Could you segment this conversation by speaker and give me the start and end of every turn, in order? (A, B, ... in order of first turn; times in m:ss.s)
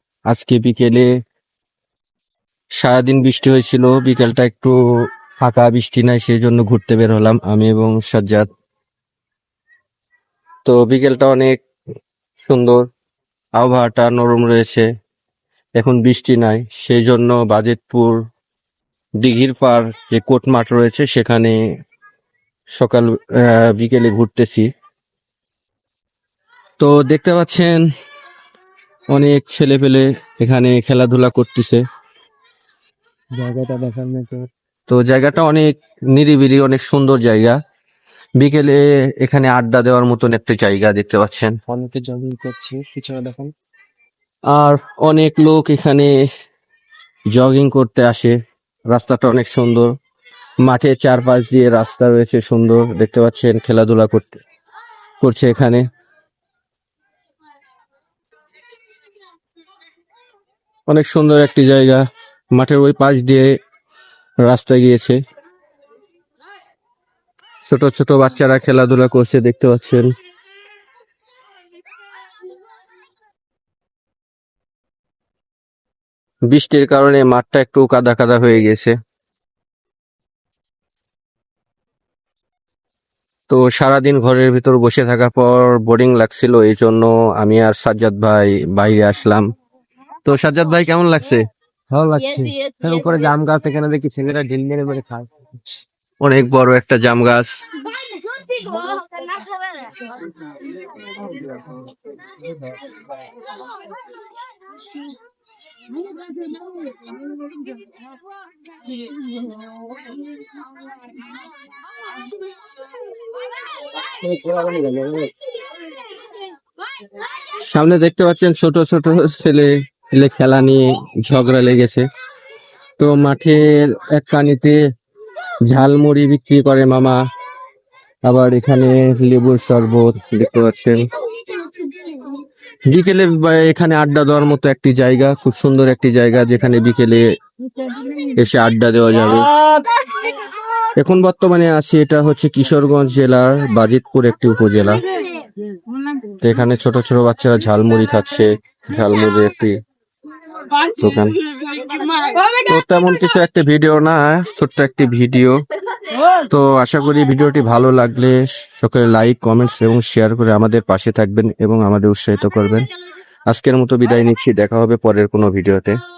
0:00.3-0:01.1 A
0:02.8-0:04.8 A
0:05.4-0:08.5 A
0:10.6-0:11.6 A
0:12.4-0:12.9 A
0:13.6-0:14.9 A
0:15.8-0:18.2 A
0:19.2-0:21.6 A
0:22.8-0:24.7 A
0:26.8-0:27.8 A
0:29.1-0:31.8 A
0:33.3-0:34.5 B
0:34.9-0:37.6 A
0:38.4-0:41.6 A
0:41.7-0:43.5 B
0:44.5-0:46.1 A
0:47.3-0:48.4 A
0:48.9-0:50.0 A
0:50.6-0:54.4 A
0:55.2-0:55.8 A
1:00.9-1:02.0 A
1:02.6-1:03.5 A
1:04.4-1:05.2 A
1:07.6-1:10.1 A
1:16.5-1:18.9 A
1:23.5-1:29.4 A
1:30.2-1:31.4 A
1:31.9-1:35.6 B
1:36.2-1:37.5 A
1:54.1-1:55.3 B
1:57.5-2:02.0 A
2:03.0-2:04.8 A
2:05.7-2:07.2 A
2:08.3-2:11.1 A
2:12.9-2:17.3 A
2:18.4-2:19.6 A
2:21.0-2:25.0 A
2:26.4-2:29.8 A
2:31.0-2:31.4 A
2:32.5-2:35.6 A
2:36.3-2:42.9 A
2:43.5-2:46.0 A